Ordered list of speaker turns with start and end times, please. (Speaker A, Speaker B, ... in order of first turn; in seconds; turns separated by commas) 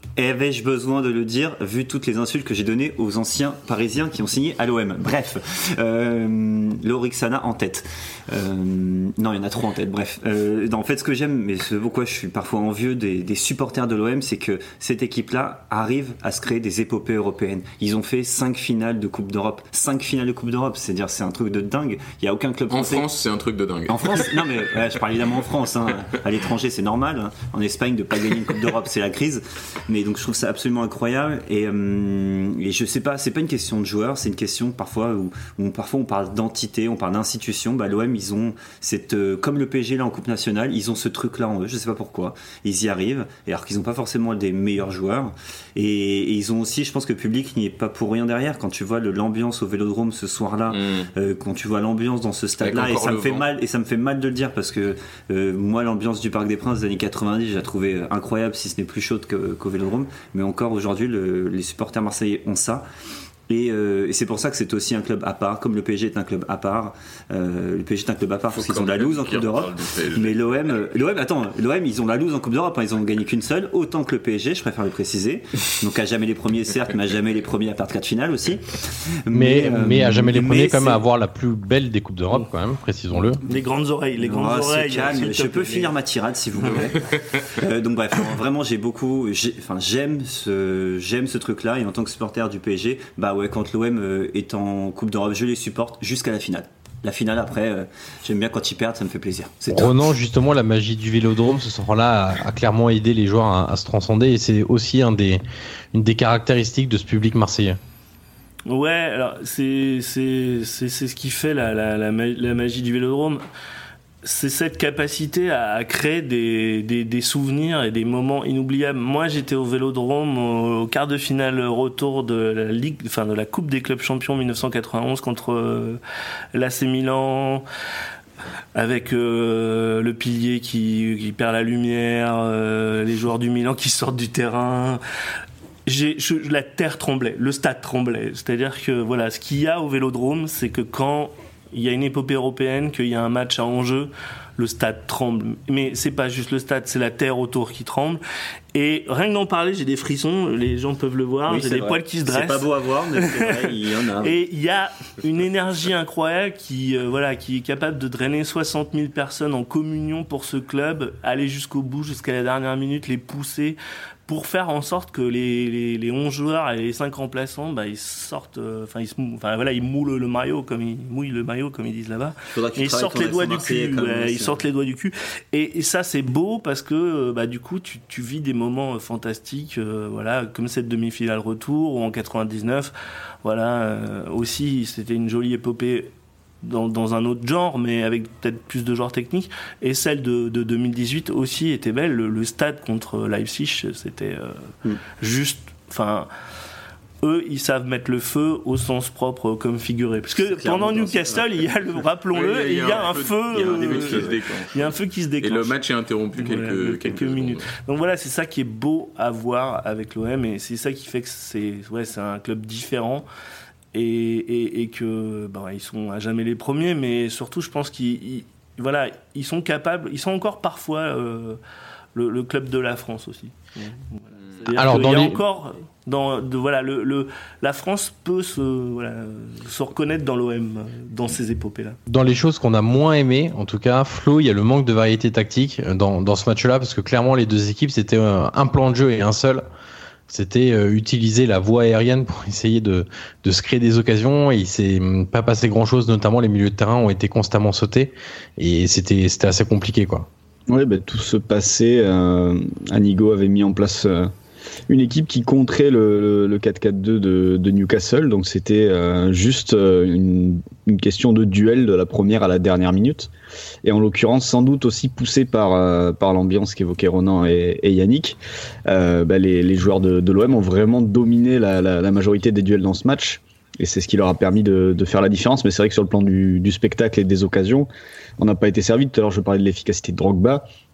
Speaker A: 0.2-23.1, Speaker B: 22.7-24.6, Speaker A: 23.9-62.9, Speaker B: 50.7-51.1, Speaker B: 52.6-53.5, Speaker A: 63.5-81.0, Speaker B: 68.5-70.4, Speaker C: 79.3-83.4, Speaker D: 83.4-85.9, Speaker A: 84.2-100.1, Speaker C: 99.7-105.4, Speaker C: 105.9-107.8, Speaker D: 108.7-113.4, Speaker D: 114.2-126.0, Speaker D: 126.5-127.7, Speaker D: 128.8-135.0, Speaker D: 135.9-148.2, Speaker D: 148.7-182.9, Speaker A: 151.5-154.3, Speaker A: 172.5-174.6, Speaker D: 183.4-186.1, Speaker D: 186.6-194.7, Speaker D: 195.2-196.3, Speaker D: 197.2-205.7, Speaker A: 200.4-201.5, Speaker B: 202.3-204.9, Speaker A: 203.6-204.4, Speaker B: 205.4-207.7, Speaker D: 206.4-213.3, Speaker D: 213.9-221.6, Speaker D: 222.2-232.0, Speaker C: 224.8-225.4, Speaker C: 232.1-239.7, Speaker C: 240.3-250.3, Speaker E: 250.7-254.3, Speaker E: 254.9-263.3, Speaker E: 263.8-268.4, Speaker E: 268.9-277.9, Speaker E: 278.4-280.6